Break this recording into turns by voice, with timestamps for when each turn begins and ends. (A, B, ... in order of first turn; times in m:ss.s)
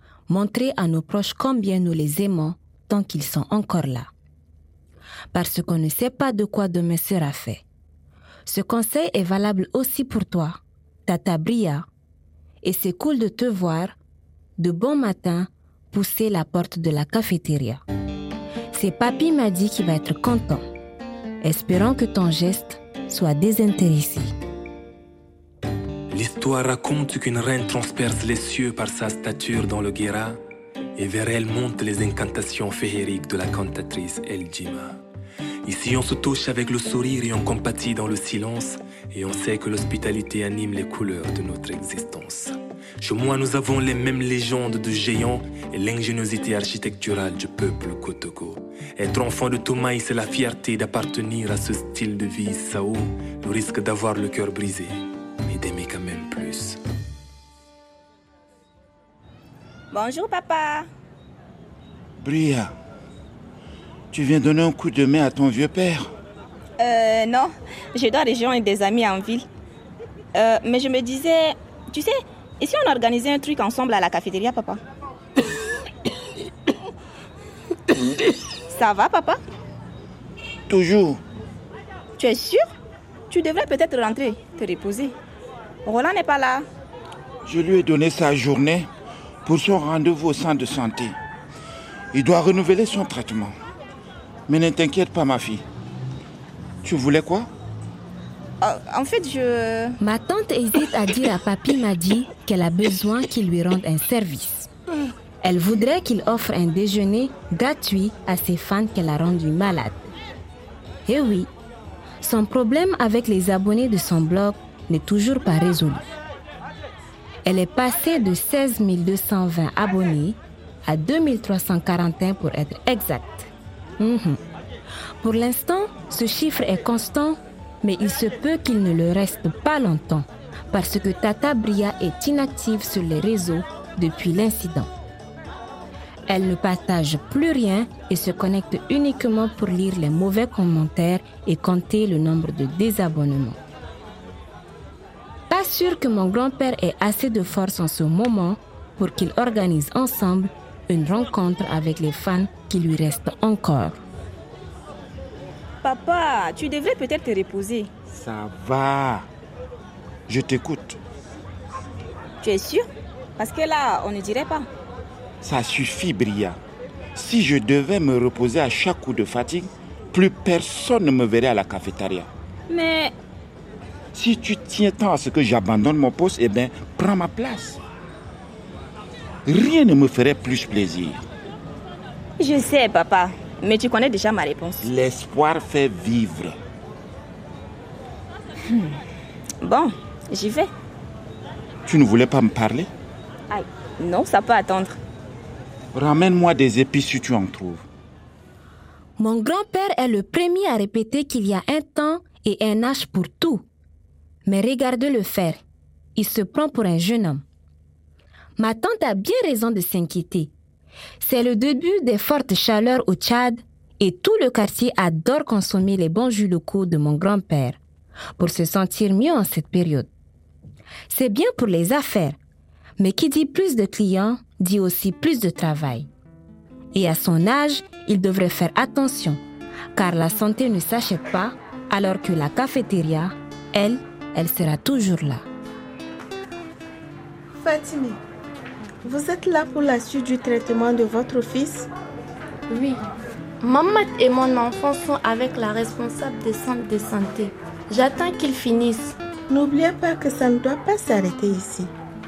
0:00.3-0:04.1 A
0:05.3-0:07.6 A
0:08.4-0:11.8 A
0:12.6-0:14.0 A
0:14.6-0:17.8 A
0:18.7-0:20.6 A
0:21.4-0:24.4 A
0:26.1-0:30.4 B
0:31.0-0:35.0 B
0:35.6-0:54.9 B
0:55.5-0:56.8 B
0:59.9-1:00.9 C
1:02.2-1:02.7 D
1:04.1-1:06.1 D
1:06.8-1:09.5 C
1:10.3-1:14.8 C
1:18.7-1:19.4 C
1:20.7-1:21.2 D
1:22.2-1:22.7 C
1:23.3-1:25.1 C
1:25.8-1:26.7 C
1:27.4-1:28.9 D
1:29.4-1:31.2 D
1:32.1-1:33.6 D
1:34.5-1:35.6 D
1:36.8-1:37.5 D
1:38.6-1:40.0 C
1:40.0-1:44.7 A
1:45.4-1:50.1 A
1:51.0-1:51.5 A
1:52.2-1:56.2 A
1:57.4-2:04.4 A
2:05.2-2:14.9 A
2:16.3-2:23.6 A
2:25.5-2:34.0 A
2:35.8-2:37.9 C
2:38.1-2:39.3 D
2:40.3-2:41.0 D
2:42.4-2:44.7 C
2:45.4-2:46.6 D
2:47.1-2:52.3 D
2:52.7-2:53.1 C
2:54.1-2:57.8 D
2:59.4-3:01.2 D
3:02.4-3:04.9 C
3:04.8-3:06.6 D
3:08.7-3:09.0 C
3:09.6-3:10.7 C
3:11.8-3:12.9 D
3:13.5-3:15.0 C
3:15.9-3:17.9 D
3:19.2-3:23.6 A
3:24.4-3:25.6 A
3:26.1-3:27.4 A
3:28.6-3:30.5 A
3:31.2-3:37.8 A
3:38.4-3:40.1 A
3:41.1-3:42.4 A
3:43.0-3:46.1 A
3:46.9-3:49.4 A
3:49.9-3:55.4 A
3:57.6-3:58.2 E
3:59.0-4:01.9 E
4:02.7-4:03.1 F
4:03.6-4:09.2 F
4:09.5-4:11.9 E